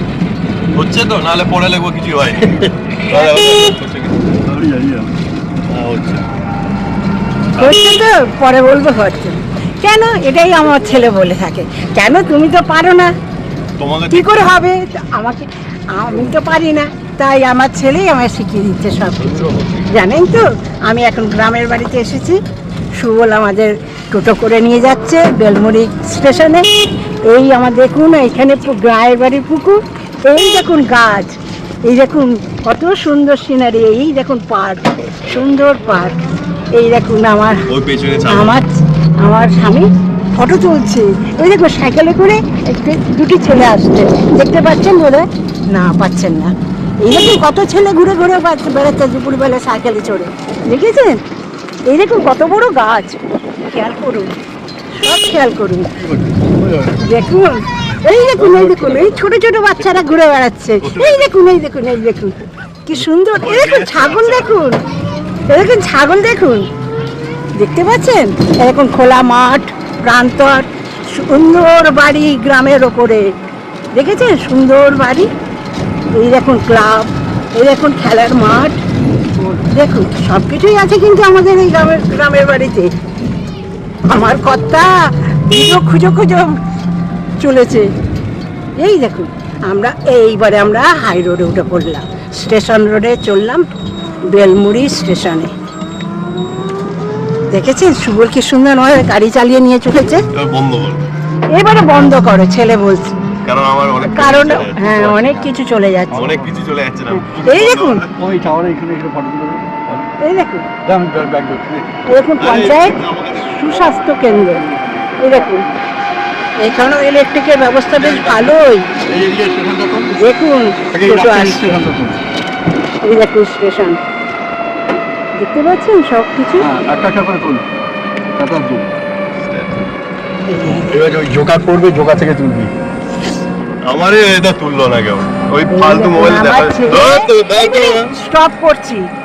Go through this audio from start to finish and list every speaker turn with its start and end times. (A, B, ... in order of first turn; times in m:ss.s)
0:00.7-0:04.4 A
0:03.1-0:03.7 B
0:04.4-0:05.1 C
0:05.6-0:06.3 A
0:07.6-0:13.1 B
0:13.8-0:14.5 A
0:14.1-0:22.4 B
0:19.2-0:19.9 A
0:23.0-0:26.7 B
0:27.3-0:36.2 B
0:36.8-0:37.6 B
0:37.7-0:38.6 A
0:38.3-0:51.2 B
0:51.9-0:53.2 B
0:53.7-0:54.3 B
0:55.0-0:56.0 B
0:56.1-0:57.0 C
0:57.0-1:04.8 B
1:00.8-1:01.2 A
1:03.4-1:04.6 A
1:05.5-1:06.7 B
1:07.6-1:13.3 B
1:13.9-1:15.3 B
1:16.2-1:18.8 B
1:19.4-1:22.9 B
1:24.1-1:26.6 B
1:27.4-1:27.9 B
1:28.8-1:33.6 B
1:34.3-1:35.5 B
1:37.5-1:40.3 B
1:40.3-1:41.1 A
1:41.5-1:43.2 B
1:43.4-1:45.0 A
1:44.0-1:46.3 B
1:44.8-1:45.5 C
1:46.1-1:48.2 A
1:47.4-1:48.1 B
1:48.1-1:50.1 C
1:50.2-1:50.7 B
1:50.8-1:51.9 C
1:52.1-1:54.6 B
1:52.4-1:53.6 A
1:54.0-1:55.7 C
1:55.2-1:55.7 B
1:56.6-1:58.9 B
1:58.0-1:58.5 A
1:59.1-2:00.2 C
2:00.2-2:01.8 B
2:00.9-2:02.2 C
2:03.0-2:04.0 B
2:05.4-2:06.7 B
2:06.6-2:07.7 C
2:08.3-2:08.9 C
2:09.4-2:09.8 A
2:10.5-2:11.0 B
2:10.9-2:12.7 C
2:13.8-2:18.1 A
2:15.7-2:19.1 B